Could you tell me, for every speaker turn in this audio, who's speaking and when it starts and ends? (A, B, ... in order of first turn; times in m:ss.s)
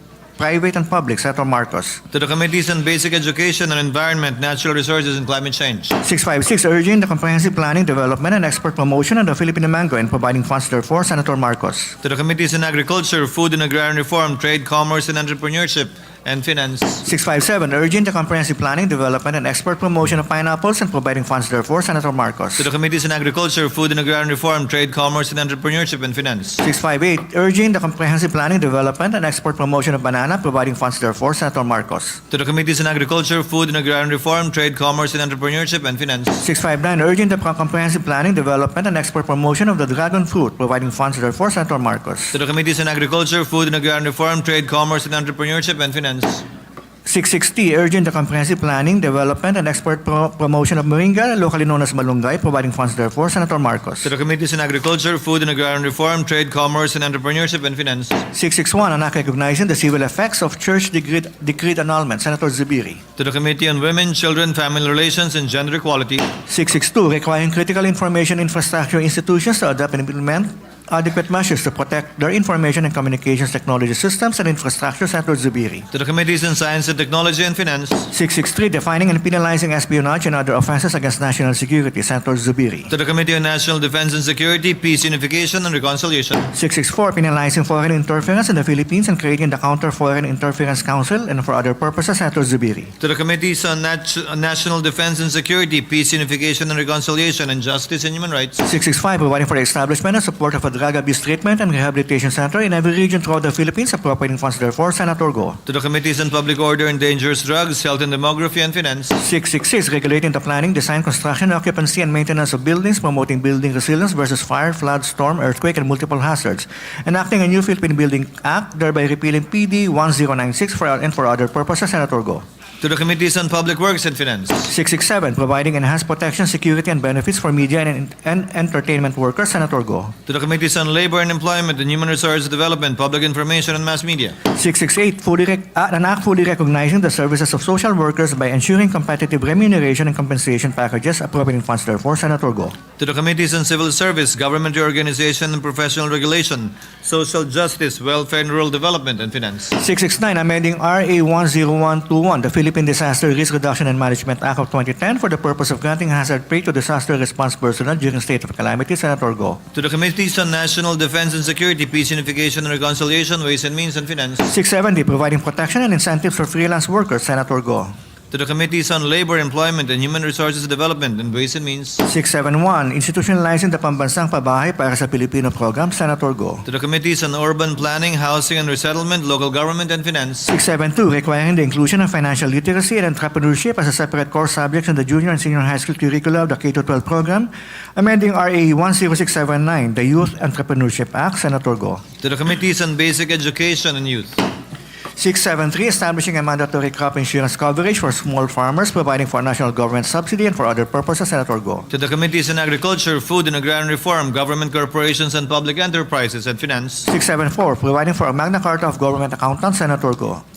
0:00.4-0:02.0 A
0:02.1-0:06.0 B
0:06.0-0:12.0 A
0:12.0-0:17.0 B
0:17.0-0:22.7 A
0:22.6-0:26.6 B
0:26.6-0:32.2 A
0:32.3-0:36.4 B
0:36.4-0:42.3 A
0:42.3-0:46.4 B
0:47.0-0:54.1 A
0:54.0-0:58.2 B
0:58.3-1:03.0 A
1:03.2-1:06.3 B
1:06.5-1:15.9 A
1:15.9-1:18.1 B
1:18.1-1:22.9 A
1:22.9-1:26.5 B
1:26.5-1:32.9 A
1:33.0-1:38.7 B
1:38.6-1:45.6 A
1:45.7-1:49.2 B
1:49.2-2:02.4 A
2:02.8-2:04.7 B
2:04.7-2:10.1 A
2:10.3-2:14.4 B
2:14.5-2:22.8 A
2:23.0-2:29.7 B
2:29.7-2:39.6 A
2:39.8-2:44.5 B
2:44.4-2:47.9 A
2:48.3-2:52.0 B
2:52.0-2:56.6 A
2:56.7-3:00.5 B
3:00.5-3:12.0 A
3:12.2-3:14.4 B
3:15.2-3:21.9 A
3:21.9-3:27.1 B
3:27.1-3:30.4 A